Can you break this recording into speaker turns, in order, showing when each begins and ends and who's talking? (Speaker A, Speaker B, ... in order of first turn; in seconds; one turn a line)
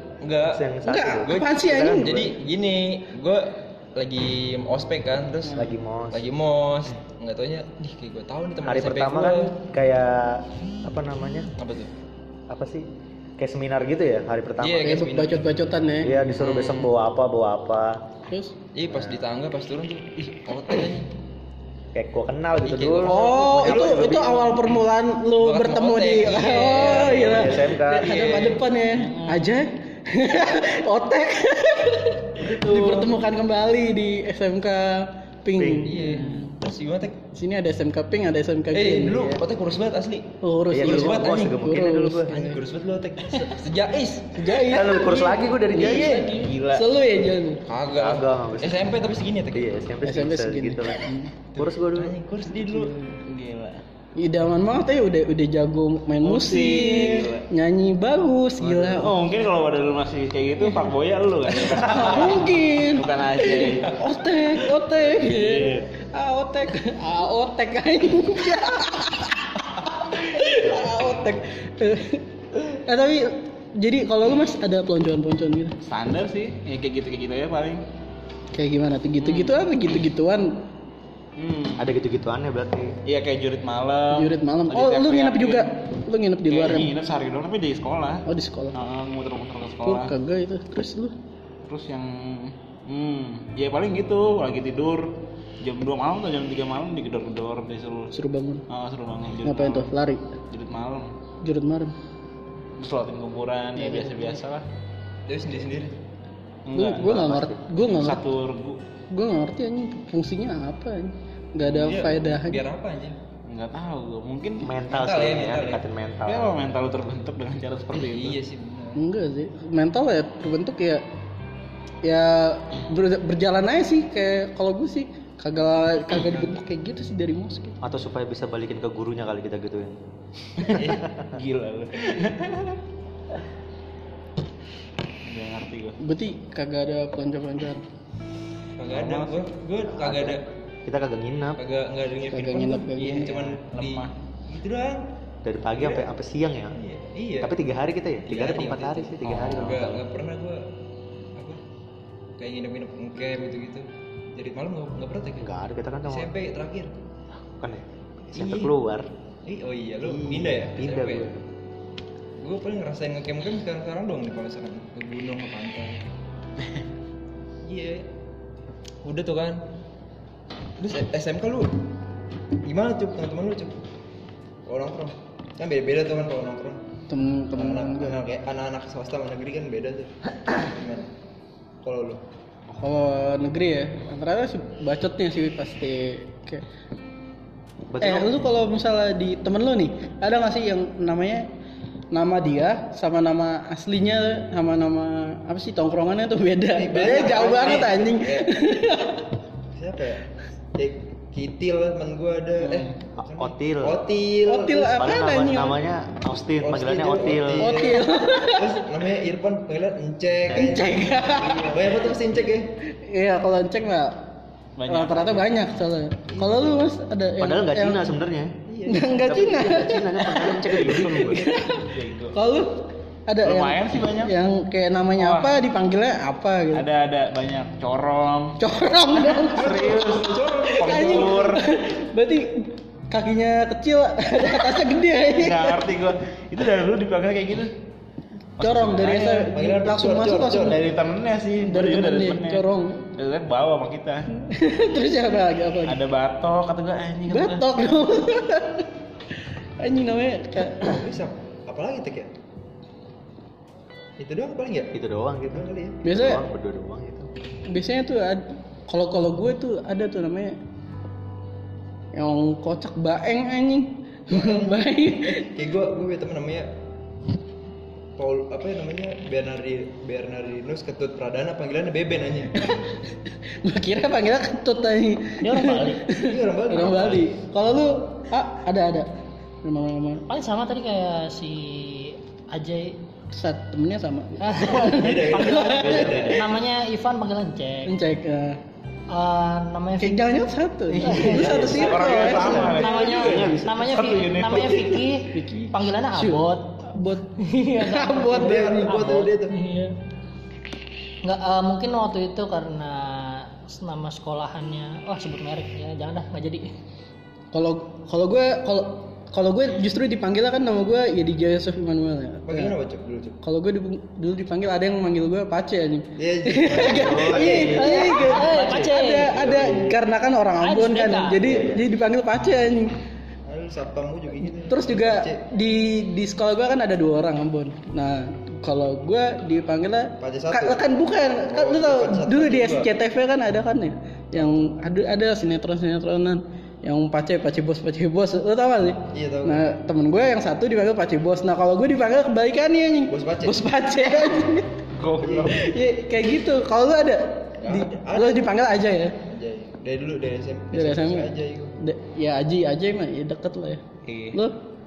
Speaker A: 0.2-9.6
Speaker B: 0.4-2.3
Speaker C: 0.8-2.2
Speaker B: 5.5-6.2
Speaker B: 8.6-11.5
Speaker A: 11.6-11.9
Speaker B: 12.5-12.9
Speaker B: 13.4-15.1
Speaker A: 14.6-15.5
Speaker C: 14.8-16.2
Speaker B: 16.0-18.0
Speaker A: 16.4-16.9
Speaker C: 18.3-18.6
Speaker A: 18.7-21.1
Speaker B: 21.9-24.4
Speaker A: 22.6-24.6
Speaker C: 23.0-36.5
Speaker A: 25.4-28.6
Speaker B: 26.9-28.2
Speaker D: 28.3-29.5
Speaker D: 32.4-33.0
Speaker B: 35.6-36.0
Speaker A: 35.9-37.2
Speaker C: 37.3-39.3
Speaker A: 38.7-41.7
Speaker C: 40.4-42.6
Speaker B: 40.7-42.3
Speaker A: 42.3-44.5
Speaker C: 44.3-47.6
Speaker B: 44.6-46.3
Speaker A: 45.7-46.4
Speaker D: 46.3-46.9
Speaker A: 47.7-49.9
Speaker B: 47.9-48.9
Speaker B: 49.5-51.1
Speaker C: 50.0-51.3
Speaker A: 51.5-53.0
Speaker B: 51.6-52.1
Speaker C: 52.6-53.2
Speaker D: 53.2-53.8
Speaker C: 54.2-59.2
Speaker D: 56.2-57.5
Speaker A: 58.6-58.9
Speaker D: 58.9-64.0
Speaker C: 61.6-75.8
Speaker D: 65.2-65.8
Speaker D: 75.8-77.8
Speaker C: 78.5-80.7
Speaker D: 79.2-79.6
Speaker D: 81.4-81.9
Speaker B: 81.8-83.0
Speaker D: 83.1-85.8
Speaker C: 84.1-86.9
Speaker D: 86.5-90.1
Speaker C: 88.3-88.8
Speaker C: 89.8-91.2
Speaker D: 91.7-98.2
Speaker C: 98.1-98.7
Speaker D: 98.7-99.9
Speaker C: 99.5-100.4
Speaker D: 100.5-101.1
Speaker C: 101.4-101.9
Speaker D: 102.8-104.7
Speaker C: 103.8-104.4
Speaker A: 105.3-106.0
Speaker D: 106.7-108.8
Speaker C: 106.8-108.2
Speaker B: 107.1-107.5
Speaker C: 109.1-112.6
Speaker D: 111.6-112.2
Speaker A: 111.8-113.2
Speaker D: 113.5-114.8
Speaker B: 114.6-116.6
Speaker A: 114.9-115.8
Speaker D: 116.3-118.4
Speaker A: 117.9-119.0
Speaker C: 119.0-121.0
Speaker C: 122.0-127.8
Speaker B: 127.8-130.0
Speaker B: 130.6-131.3
Speaker A: 130.8-131.0
Speaker D: 131.3-132.8
Speaker D: 135.2-136.0
Speaker C: 136.0-137.8
Speaker A: 138.8-140.4
Speaker D: 138.9-139.5
Speaker B: 139.9-141.6
Speaker A: 141.6-145.1
Speaker C: 142.3-143.4
Speaker D: 143.0-144.1
Speaker B: 145.4-146.7
Speaker A: 145.8-146.1
Speaker A: 146.8-147.6
Speaker B: 147.4-150.0
Speaker A: 148.3-150.7
Speaker A: 152.4-155.5
Speaker B: 155.4-156.3
Speaker A: 156.1-156.9
Speaker B: 157.5-159.1
Speaker A: 158.3-158.7
Speaker A: 159.5-161.3
Speaker B: 160.0-161.4
Speaker A: 162.4-166.0
Speaker A: 167.6-168.1
Speaker A: 169.0-169.6
Speaker A: 170.8-171.8
Speaker A: 172.6-173.8
Speaker A: 174.7-176.8
Speaker C: 177.1-178.2
Speaker A: 177.5-181.1
Speaker A: 181.8-182.2
Speaker C: 182.7-186.7
Speaker B: 187.9-188.4
Speaker C: 188.0-191.5
Speaker C: 192.1-199.3
Speaker A: 196.8-198.5
Speaker A: 199.8-205.0
Speaker D: 202.6-203.0
Speaker B: 203.2-204.0
Speaker C: 204.5-205.8
Speaker B: 204.9-207.7
Speaker A: 206.6-212.8
Speaker C: 207.6-208.8
Speaker B: 210.5-210.8
Speaker C: 210.5-211.9
Speaker C: 212.9-214.3
Speaker D: 214.8-215.5
Speaker C: 214.9-218.1
Speaker A: 216.3-216.9
Speaker B: 217.4-218.5
Speaker A: 218.7-219.9
Speaker C: 218.9-226.9
Speaker B: 219.2-221.5
Speaker D: 220.8-222.4
Speaker D: 223.4-224.3
Speaker D: 225.2-225.5
Speaker D: 226.7-228.6
Speaker C: 228.6-230.0
Speaker D: 229.3-231.7
Speaker A: 229.4-231.6
Speaker C: 230.8-235.8
Speaker D: 235.4-237.8
Speaker D: 238.6-239.5
Speaker C: 238.6-240.8
Speaker A: 239.3-240.9
Speaker D: 240.6-244.3
Speaker C: 241.6-243.1
Speaker C: 244.4-246.0
Speaker D: 245.9-247.7
Speaker C: 247.3-248.9
Speaker C: 249.8-251.0
Speaker A: 250.8-252.3
Speaker A: 254.2-254.9
Speaker B: 254.9-257.3
Speaker A: 255.5-256.0
Speaker C: 256.0-256.4
Speaker C: 257.7-260.6
Speaker C: 262.1-265.5
Speaker A: 264.3-266.7
Speaker A: 268.2-272.8
Speaker C: 272.6-272.9
Speaker C: 273.6-279.1
Speaker E: 275.4-276.1
Speaker A: 276.2-277.4
Speaker C: 279.6-280.3
Speaker E: 280.3-283.0
Speaker C: 283.3-286.2
Speaker E: 284.4-288.0
Speaker A: 284.6-286.5
Speaker B: 285.8-286.5
Speaker C: 287.9-288.6
Speaker E: 289.1-290.3
Speaker C: 290.0-292.8
Speaker B: 291.0-294.0
Speaker A: 291.0-292.8
Speaker D: 291.5-295.0
Speaker E: 292.7-299.9
Speaker C: 295.3-299.1
Speaker A: 298.2-299.6
Speaker E: 301.2-306.7
Speaker C: 307.5-312.7
Speaker A: 312.5-313.4
Speaker C: 313.4-322.9
Speaker A: 316.2-320.0
Speaker B: 316.7-318.9
Speaker E: 317.8-319.4
Speaker E: 320.6-321.5
Speaker B: 321.4-321.8
Speaker A: 323.5-325.4
Speaker C: 324.6-344.8
Speaker A: 330.2-330.8
Speaker A: 331.5-332.9
Speaker A: 339.1-339.7
Speaker A: 343.1-343.7
Speaker D: 344.9-345.7
Speaker A: 345.2-345.6
Speaker C: 345.4-349.2
Speaker A: 347.6-348.4
Speaker A: 349.2-351.8
Speaker C: 350.7-354.6
Speaker D: 354.1-354.4